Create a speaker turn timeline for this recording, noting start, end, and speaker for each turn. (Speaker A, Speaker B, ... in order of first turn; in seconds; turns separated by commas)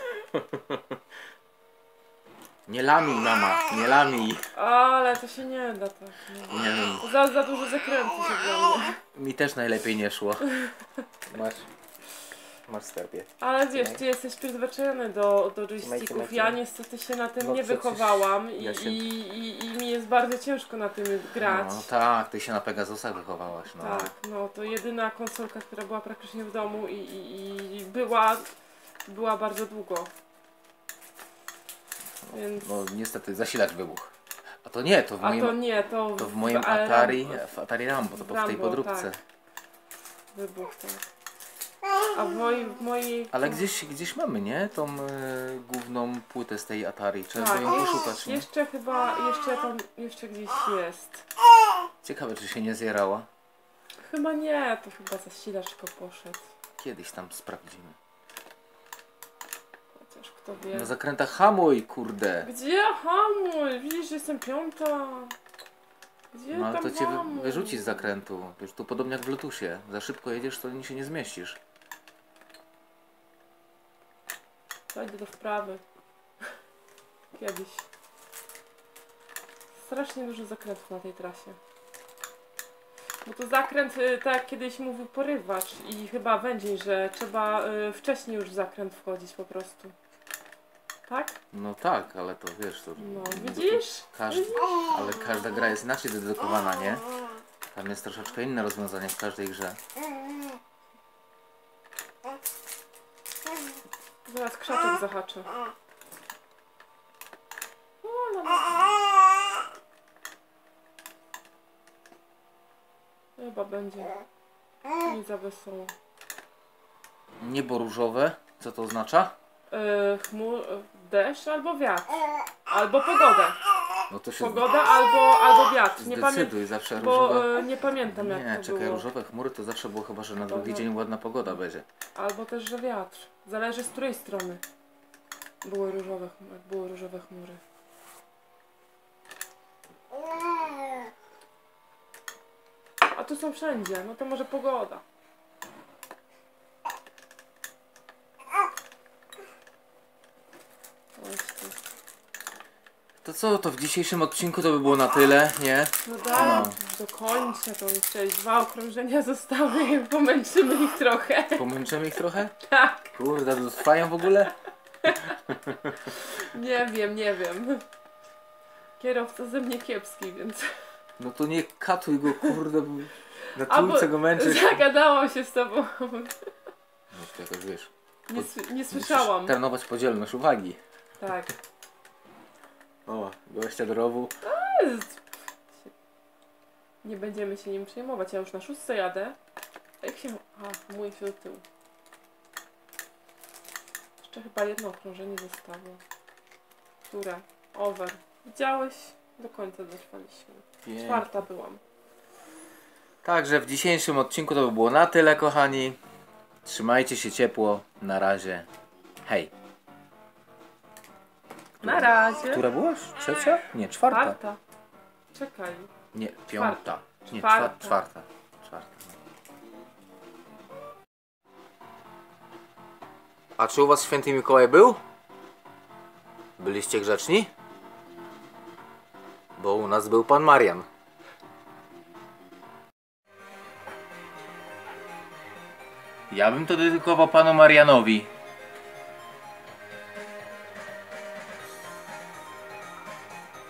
Speaker A: 0.3-0.8, Speaker A: 2.7-4.5, Speaker B: 4.5-9.0, Speaker A: 6.5-7.1, Speaker A: 9.2-10.5, Speaker B: 10.4-11.0, Speaker A: 11.3-11.7, Speaker A: 12.7-14.0, Speaker B: 13.4-21.9, Speaker A: 15.8-16.6, Speaker A: 17.4-19.0, Speaker A: 21.4-24.1, Speaker B: 23.7-28.5, Speaker B: 29.1-30.1, Speaker A: 32.2-35.6, Speaker B: 32.3-32.8, Speaker B: 35.2-37.5, Speaker A: 36.2-39.2, Speaker B: 38.2-39.1, Speaker B: 40.3-41.1, Speaker B: 42.1-43.6, Speaker A: 43.3-48.5, Speaker B: 47.4-51.3, Speaker A: 52.0-53.3, Speaker B: 54.0-56.5, Speaker A: 56.8-58.0, Speaker B: 59.9-60.9, Speaker A: 60.7-62.5, Speaker B: 62.4-65.4, Speaker B: 66.3-68.1, Speaker A: 66.5-71.6, Speaker B: 74.9-75.8, Speaker B: 77.3-77.9, Speaker B: 79.8-81.6, Speaker B: 83.2-90.0, Speaker B: 91.1-91.4, Speaker A: 91.5-97.0, Speaker B: 93.0-95.2, Speaker A: 97.7-99.8, Speaker B: 104.2-105.5, Speaker B: 108.0-109.0, Speaker B: 113.4-114.2, Speaker B: 115.0-115.9, Speaker A: 117.4-119.3, Speaker B: 119.7-123.6, Speaker A: 124.1-124.7, Speaker B: 124.4-129.1, Speaker A: 126.0-131.9, Speaker B: 130.5-130.9, Speaker B: 132.2-134.6, Speaker B: 135.6-137.6, Speaker B: 143.1-145.0, Speaker B: 151.2-151.8, Speaker A: 153.2-156.8, Speaker B: 156.0-161.7, Speaker A: 161.6-162.6, Speaker B: 162.6-163.1, Speaker A: 163.1-164.6, Speaker B: 165.0-165.3, Speaker A: 165.1-166.0, Speaker B: 166.1-167.8, Speaker B: 169.0-170.8, Speaker A: 171.2-174.8, Speaker B: 173.5-176.5, Speaker A: 177.1-180.8, Speaker B: 178.3-179.6, Speaker B: 181.2-181.5, Speaker A: 183.1-184.3, Speaker B: 184.4-185.9, Speaker B: 187.0-189.4, Speaker B: 190.0-191.6, Speaker B: 194.2-196.0, Speaker B: 197.1-201.8, Speaker A: 200.8-201.2, Speaker A: 203.2-206.0, Speaker A: 206.7-208.7, Speaker A: 209.2-209.5, Speaker A: 211.8-214.4, Speaker B: 211.8-212.7, Speaker B: 214.1-214.6, Speaker B: 215.3-215.9, Speaker A: 216.1-219.2, Speaker B: 216.5-218.0, Speaker A: 223.6-225.0, Speaker A: 226.6-227.5, Speaker A: 229.6-230.9, Speaker A: 236.3-238.3